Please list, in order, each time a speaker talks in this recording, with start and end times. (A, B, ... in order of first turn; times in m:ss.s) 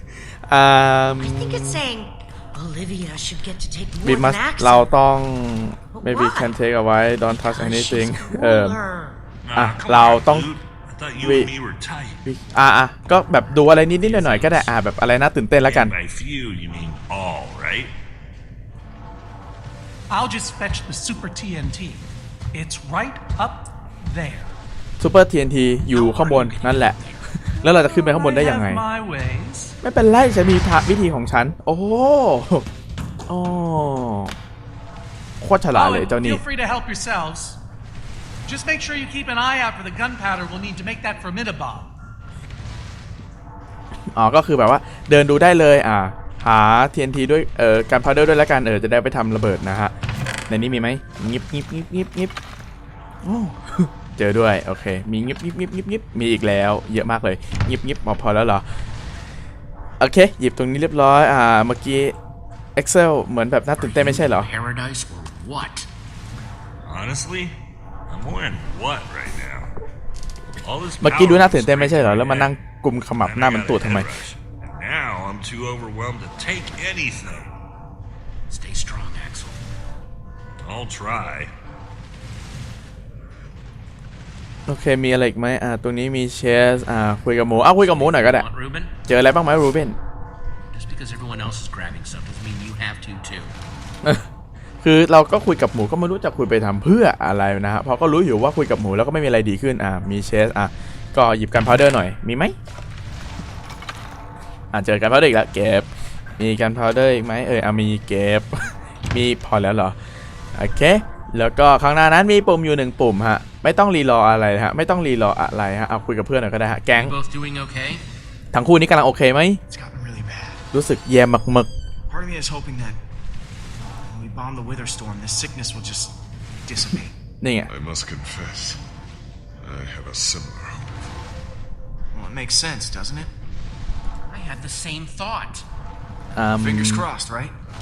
0:00.5-0:01.8 A
0:01.1-0:04.9 B
0:04.0-0:08.8 A
0:05.9-0:06.6 B
0:07.4-0:09.2 B
0:09.4-0:12.2 C
0:09.6-0:10.5 A
0:11.2-0:11.5 A
0:12.3-0:15.9 A
0:14.0-0:14.7 C
0:15.6-0:17.9 C
0:20.1-0:24.6 D
0:25.0-0:28.8 A
0:25.9-0:27.2 E
0:27.6-0:29.7 D
0:29.8-0:32.7 A
0:33.3-0:34.3 A
0:35.4-0:36.4 A
0:35.7-0:37.6 D
0:38.4-0:41.9 D
0:44.1-0:49.9 A
0:50.5-0:52.3 A
0:53.2-0:58.6 A
1:00.0-1:02.2 A
1:02.8-1:04.5 A
1:03.8-1:05.9 E
1:06.8-1:09.7 C
1:10.6-1:12.6 C
1:11.0-1:14.1 A
1:13.2-1:17.6 C
1:18.5-1:19.6 E
1:20.6-1:21.5 C
1:24.7-1:28.5 A
1:27.8-1:28.9 E
1:29.1-1:30.0 A
1:30.7-1:33.6 E
1:34.8-1:42.6 A
1:44.7-1:45.9 A
1:46.4-1:50.0 A
1:50.6-1:57.1 A
1:56.9-1:58.0 E
1:58.5-1:59.6 A
1:59.7-2:00.6 F
2:00.7-2:01.7 A
2:02.1-2:03.0 F
2:04.0-2:07.2 F
2:07.4-2:07.7 A
2:07.7-2:08.8 G
2:09.6-2:11.0 G
2:12.1-2:13.3 F
2:14.3-2:15.6 E
2:16.4-2:17.1 A
2:16.5-2:17.5 F